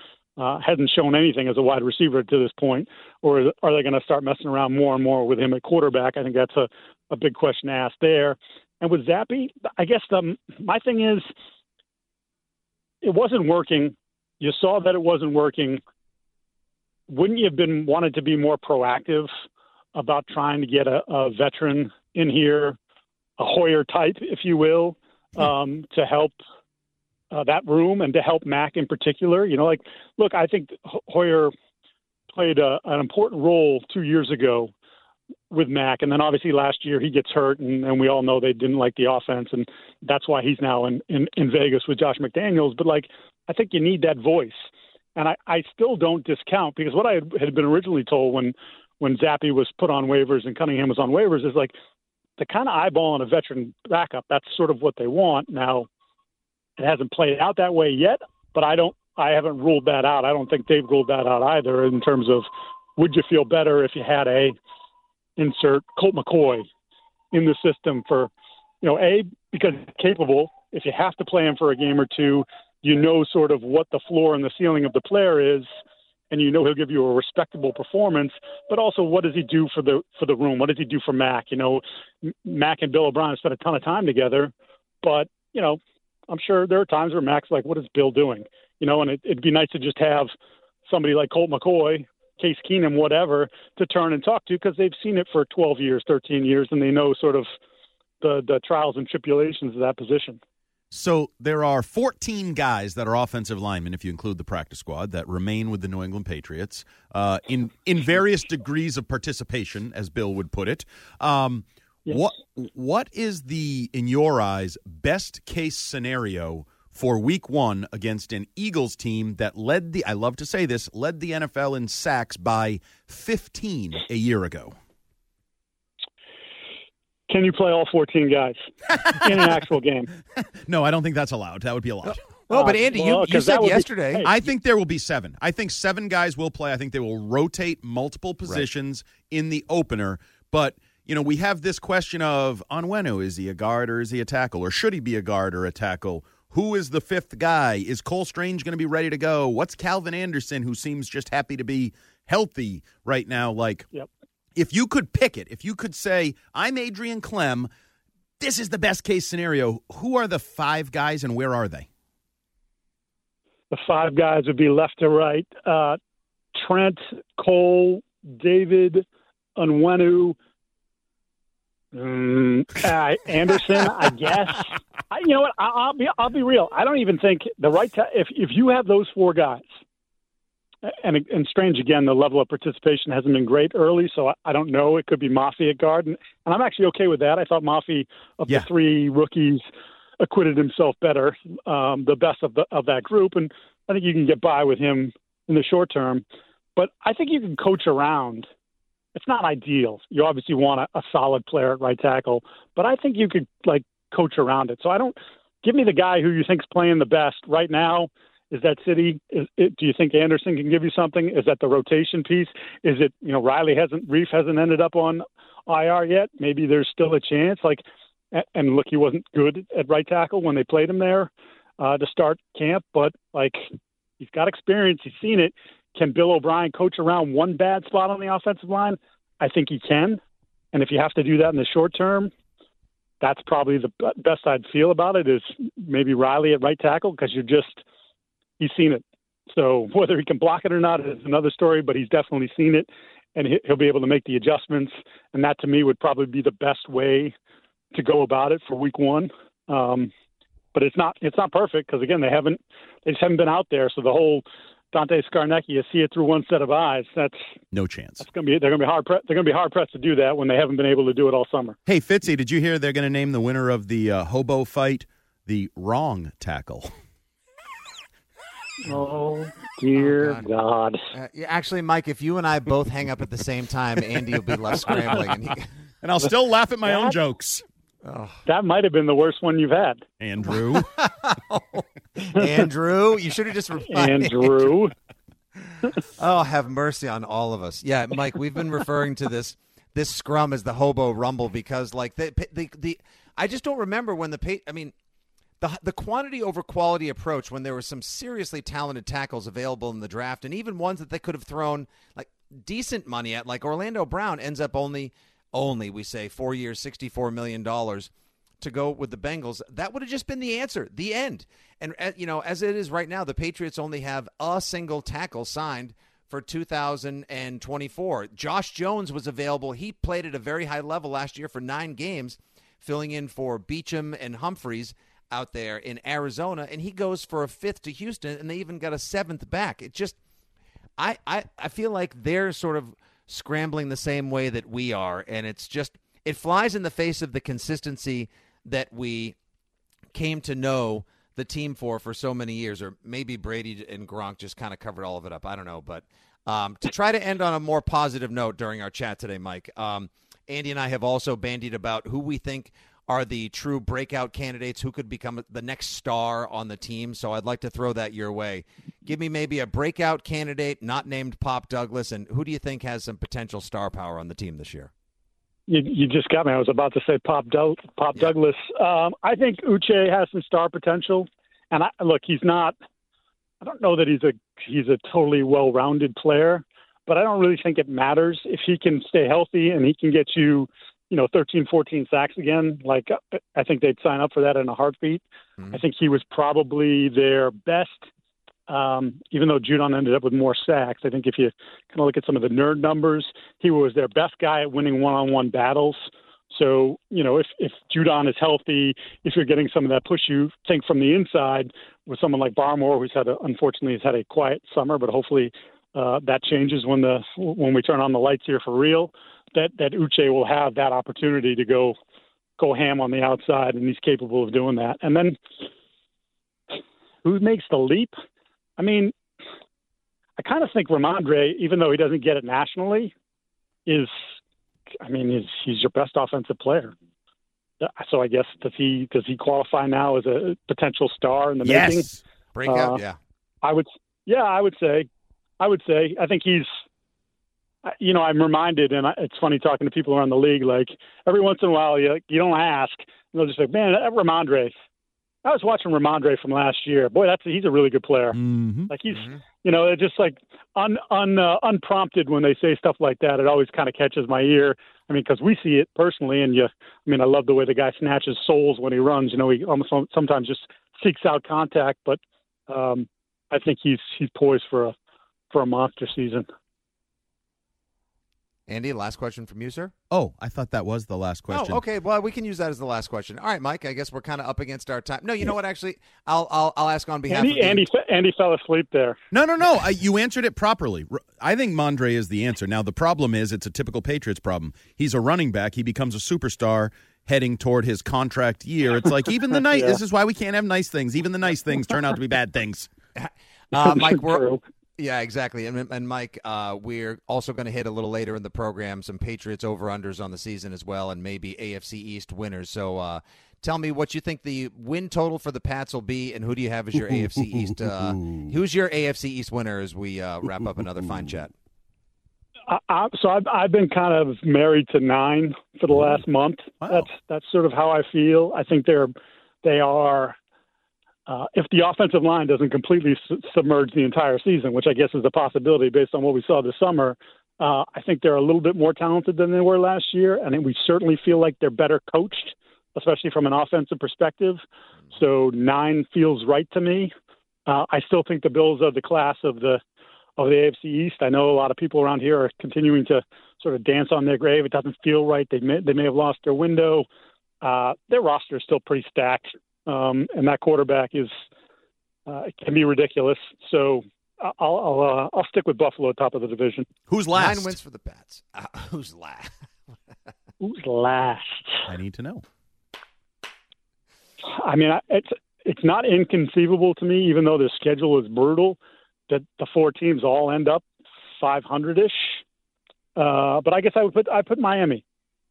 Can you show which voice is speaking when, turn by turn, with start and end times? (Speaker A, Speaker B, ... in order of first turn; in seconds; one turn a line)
Speaker A: 0.4-11.3
Speaker A: 13.0-15.8
Speaker A: 17.1-19.3
Speaker A: 19.9-22.8
Speaker A: 23.4-26.4
Speaker A: 27.3-31.5
Speaker A: 32.3-34.7
Speaker A: 35.5-51.7
Speaker A: 52.4-55.9
Speaker A: 56.8-64.6
Speaker A: 65.4-66.7
Speaker A: 67.3-68.3
Speaker A: 68.8-75.7
Speaker A: 76.3-84.5
Speaker A: 85.0-90.3
Speaker A: 90.9-97.5
Speaker A: 98.2-100.4
Speaker B: 100.9-124.8
Speaker A: 127.3-130.1
Speaker B: 128.9-129.7
Speaker B: 130.4-132.2
Speaker C: 132.5-134.3
Speaker A: 132.5-134.4
Speaker B: 134.2-153.9
Speaker B: 154.6-157.7
Speaker B: 158.4-161.9
Speaker A: 163.7-166.0
Speaker A: 166.6-169.1
Speaker A: 169.6-170.4
Speaker A: 171.9-179.7
Speaker A: 180.8-189.6
Speaker A: 190.2-196.2
Speaker A: 196.8-198.5
Speaker A: 199.2-223.6
Speaker A: 224.2-230.2
Speaker A: 230.7-232.3
Speaker A: 233.2-237.8
Speaker A: 238.6-247.3
Speaker A: 247.9-250.1
Speaker A: 250.7-257.4
Speaker B: 257.7-258.2
Speaker A: 258.2-261.8
Speaker B: 261.9-266.9
Speaker A: 268.8-271.0
Speaker C: 269.9-270.5
Speaker C: 271.1-275.6
Speaker B: 276.0-277.6
Speaker A: 276.8-277.2
Speaker C: 278.0-278.4
Speaker A: 278.5-280.0
Speaker B: 280.2-280.9
Speaker C: 280.8-284.7
Speaker A: 283.9-284.9
Speaker C: 285.8-294.9
Speaker C: 295.6-308.1
Speaker C: 308.6-330.2
Speaker C: 331.0-339.4
Speaker C: 340.1-364.9
Speaker A: 365.7-372.8
Speaker A: 373.6-388.1
Speaker A: 388.7-396.0
Speaker A: 396.5-412.0
Speaker A: 412.6-415.4
Speaker A: 417.2-418.2
Speaker A: 418.8-419.1
Speaker A: 420.4-423.1
Speaker A: 423.9-424.1
Speaker A: 425.0-426.9
Speaker A: 427.8-432.1
Speaker B: 431.6-432.2
Speaker C: 432.6-433.2
Speaker A: 432.7-433.0
Speaker A: 433.6-435.1
Speaker A: 435.6-436.7
Speaker A: 437.9-444.7
Speaker A: 445.4-448.4
Speaker B: 448.4-448.9
Speaker A: 448.9-464.9
Speaker C: 449.1-449.4
Speaker A: 465.5-466.5
Speaker C: 468.7-469.9
Speaker B: 470.1-471.8
Speaker C: 471.5-477.9
Speaker A: 477.3-479.2
Speaker B: 479.3-492.9
Speaker A: 489.7-490.0
Speaker C: 493.2-494.4
Speaker A: 493.8-494.6
Speaker C: 495.0-511.5
Speaker A: 512.7-520.4
Speaker B: 516.8-517.1
Speaker A: 521.3-534.6
Speaker A: 535.1-537.1
Speaker A: 537.7-539.8
Speaker A: 540.4-547.1
Speaker A: 547.6-551.3
Speaker A: 552.3-556.9
Speaker B: 557.1-557.8
Speaker C: 557.4-559.5
Speaker A: 560.6-561.9
Speaker B: 561.9-562.4
Speaker A: 564.5-568.8
Speaker A: 569.3-570.9
Speaker A: 571.4-572.4
Speaker A: 573.2-575.0